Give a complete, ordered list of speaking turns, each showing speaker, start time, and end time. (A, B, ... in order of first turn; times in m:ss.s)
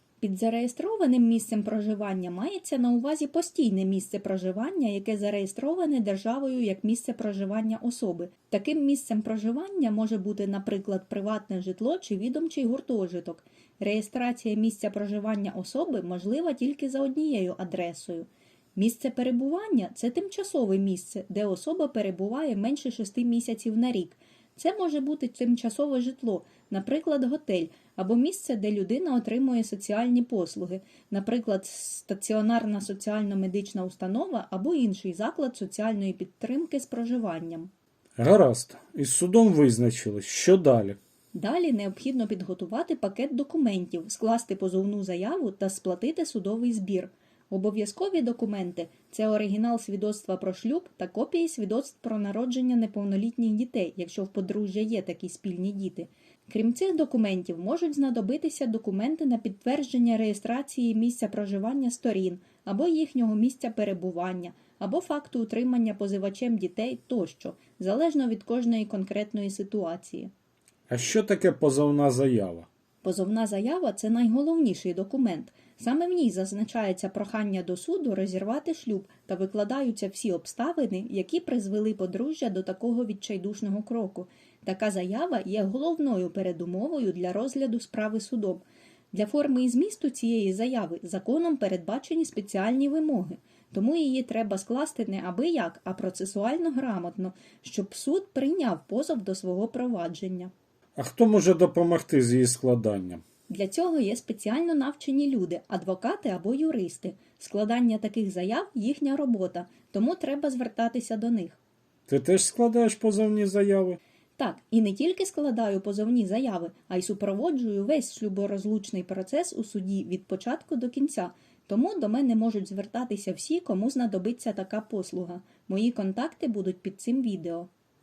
0:00.2-0:37.7 A
0:38.2-0:41.0 B
0:41.3-1:10.3 A
1:10.9-1:12.7 B
1:13.0-1:40.5 A
1:41.0-1:43.2 B
1:43.5-1:51.6 A
1:52.1-1:54.0 B
1:54.4-2:07.7 A